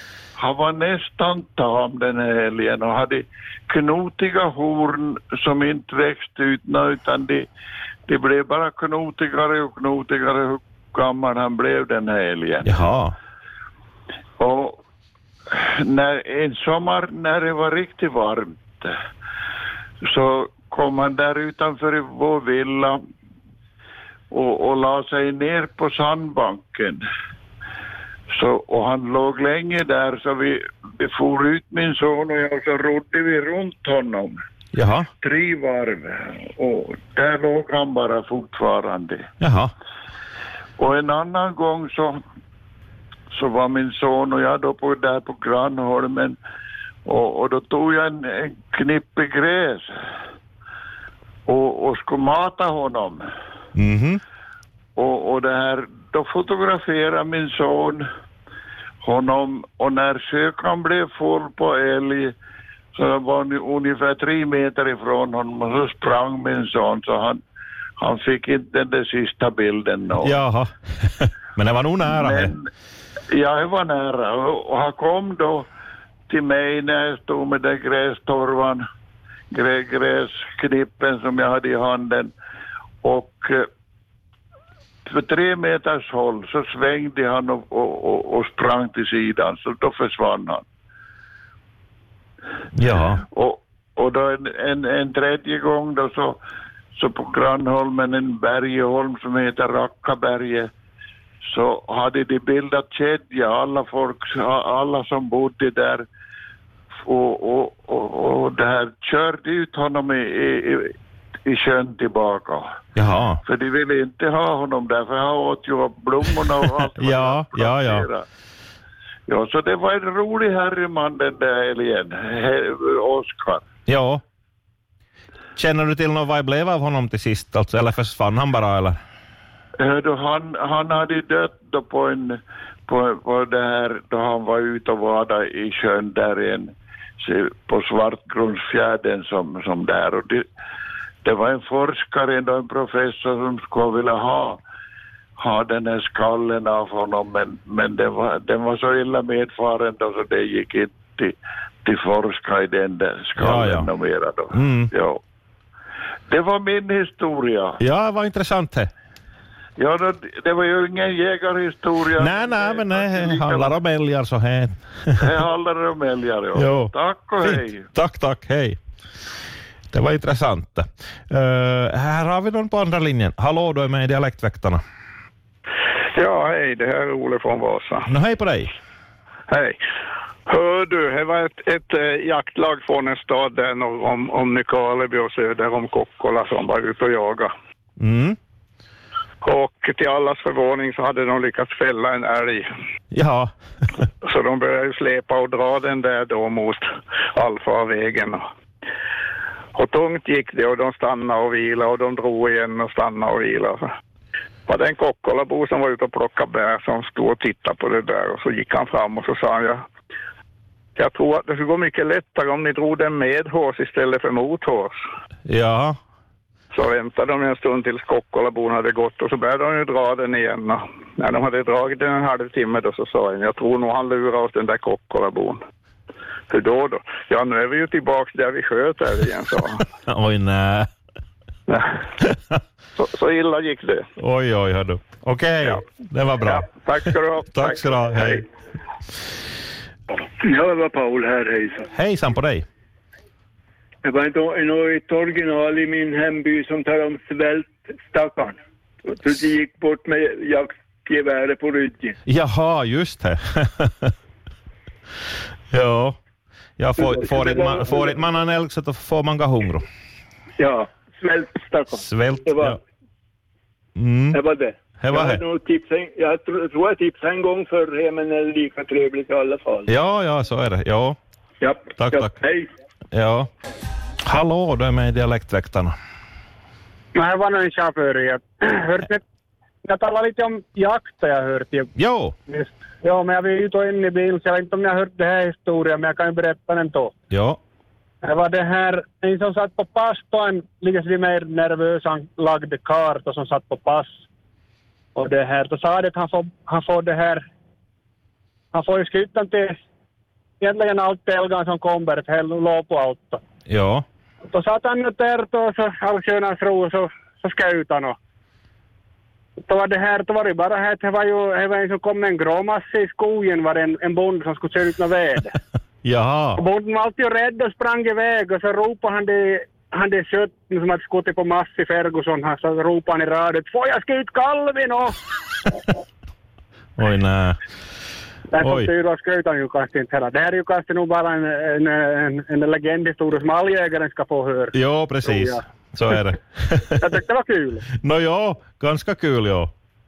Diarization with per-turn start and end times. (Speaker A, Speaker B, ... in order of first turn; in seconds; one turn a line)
Speaker A: 0.4-7.4
Speaker A: 8.1-12.7
Speaker B: 12.6-13.1
Speaker A: 14.4-14.8
Speaker A: 15.5-18.9
Speaker A: 20.1-23.0
Speaker A: 24.3-27.0
Speaker A: 28.3-34.4
Speaker B: 34.7-35.1
Speaker A: 35.2-39.2
Speaker B: 39.4-39.7
Speaker A: 40.8-42.2
Speaker A: 43.3-46.4
Speaker A: 47.0-49.9
Speaker A: 51.5-53.2
Speaker B: 53.8-54.2
Speaker A: 55.0-58.0
Speaker A: 59.0-62.3
Speaker A: 63.0-67.4
Speaker A: 68.0-70.4
Speaker B: 70.2-72.5
Speaker A: 72.0-72.7
Speaker A: 73.3-75.7
Speaker A: 76.3-78.8
Speaker A: 79.5-82.3
Speaker A: 83.0-83.6
Speaker A: 85.1-90.6
Speaker B: 92.8-93.2
Speaker A: 93.3-96.4
Speaker A: 97.0-100.7
Speaker A: 101.5-106.0
Speaker A: 107.1-110.9
Speaker A: 111.5-112.7
Speaker B: 113.0-113.4
Speaker A: 113.4-118.2
Speaker B: 116.6-118.1
Speaker A: 119.3-123.6
Speaker B: 123.9-124.2
Speaker B: 125.6-129.0
Speaker A: 129.8-136.7
Speaker A: 137.2-140.4
Speaker A: 141.2-144.6
Speaker A: 145.4-151.3
Speaker A: 151.8-155.2
Speaker B: 153.4-153.9
Speaker B: 154.5-154.9
Speaker A: 156.3-157.8
Speaker B: 157.8-158.9
Speaker A: 159.8-163.8
Speaker B: 162.2-165.3
Speaker A: 165.2-167.9
Speaker B: 166.6-168.8
Speaker B: 169.9-174.8
Speaker C: 176.1-178.1
Speaker B: 178.1-178.7
Speaker C: 179.5-179.8
Speaker C: 180.5-187.5
Speaker B: 188.0-188.4
Speaker C: 189.4-192.7
Speaker B: 193.1-193.5
Speaker C: 194.2-198.5
Speaker C: 199.8-203.9
Speaker C: 204.7-209.8
Speaker C: 210.9-215.0
Speaker B: 215.4-215.9
Speaker C: 216.7-225.7
Speaker C: 226.5-229.7
Speaker B: 229.7-230.9
Speaker B: 232.2-232.6
Speaker C: 232.9-234.1
Speaker B: 234.2-238.5
Speaker C: 236.5-238.3
Speaker D: 240.4-241.9
Speaker B: 241.9-242.7
Speaker D: 244.0-252.2
Speaker B: 252.3-254.1
Speaker B: 255.7-256.2
Speaker B: 256.8-259.9
Speaker D: 257.0-258.2
Speaker D: 260.6-262.8
Speaker B: 262.0-262.8
Speaker B: 263.9-264.4
Speaker D: 264.3-269.9
Speaker B: 265.0-265.4
Speaker B: 269.9-271.2
Speaker D: 271.6-272.7
Speaker B: 271.9-272.3
Speaker B: 273.1-273.5
Speaker B: 274.3-275.9
Speaker E: 277.1-279.2
Speaker E: 279.8-281.9
Speaker B: 281.9-282.3
Speaker E: 282.5-287.1
Speaker B: 287.3-287.6
Speaker E: 288.2-294.1
Speaker E: 295.2-297.4
Speaker E: 298.7-299.8
Speaker E: 300.6-303.4
Speaker B: 303.7-304.0
Speaker E: 304.5-308.2
Speaker E: 309.7-315.5
Speaker B: 316.0-316.6
Speaker E: 316.6-325.1
Speaker B: 327.0-327.6
Speaker E: 328.5-334.7
Speaker B: 328.6-328.9
Speaker B: 334.7-337.1
Speaker E: 335.2-335.6
Speaker E: 337.0-337.8
Speaker B: 337.9-339.7